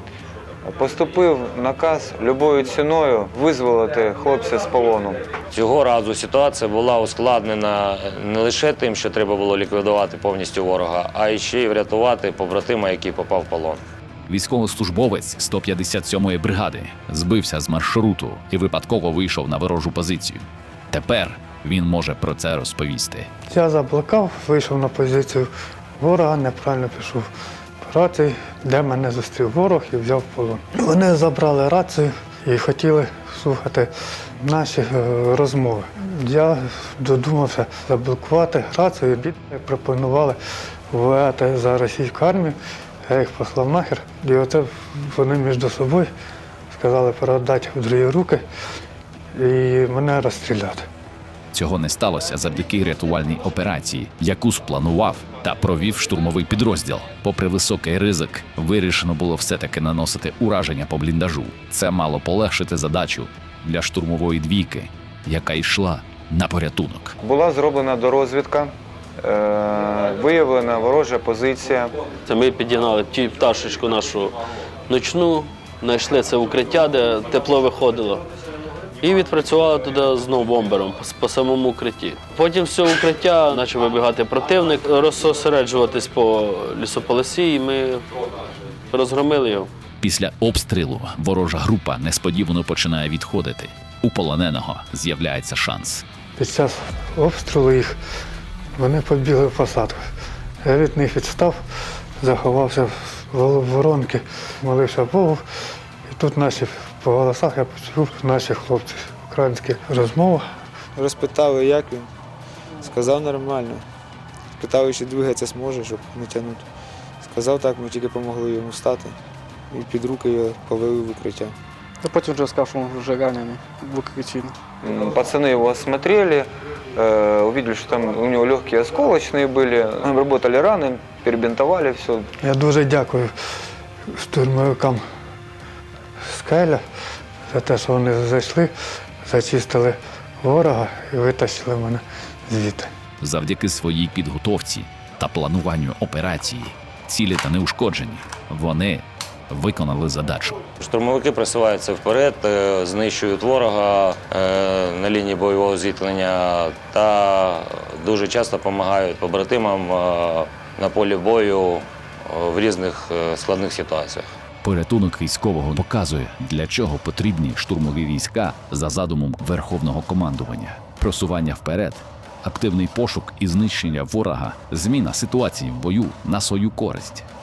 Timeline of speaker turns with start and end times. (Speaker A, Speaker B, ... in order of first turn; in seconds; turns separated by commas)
Speaker A: 0.7-5.2, Speaker B: 5.5-13.8, Speaker C: 14.3-23.3, Speaker D: 23.5-27.3, Speaker D: 27.8-40.4, Speaker D: 40.9-42.5, Speaker D: 43.1-46.1, Speaker D: 46.7-48.4, Speaker D: 49.3-50.9, Speaker C: 51.5-67.2, Speaker A: 67.2-71.9, Speaker E: 72.3-74.3, Speaker E: 74.9-78.2, Speaker E: 79.0-88.0, Speaker E: 88.9-89.7, Speaker C: 90.0-96.0, Speaker D: 96.4-98.0, Speaker D: 98.8-100.1, Speaker D: 100.6-101.6, Speaker D: 102.2-105.4, Speaker D: 106.0-110.4, Speaker F: 111.0-112.1, Speaker F: 112.8-113.8, Speaker F: 114.6-116.7, Speaker F: 117.2-119.2, Speaker F: 119.7-121.6, Speaker G: 122.0-124.5, Speaker A: 124.8-132.3, Speaker D: 132.4-133.3, Speaker D: 134.1-135.0, Speaker D: 136.2-136.8, Speaker D: 137.5-138.7, Speaker D: 139.2-142.9, Speaker C: 143.2-150.6, Speaker B: 150.8-164.3, Speaker C: 164.6-177.3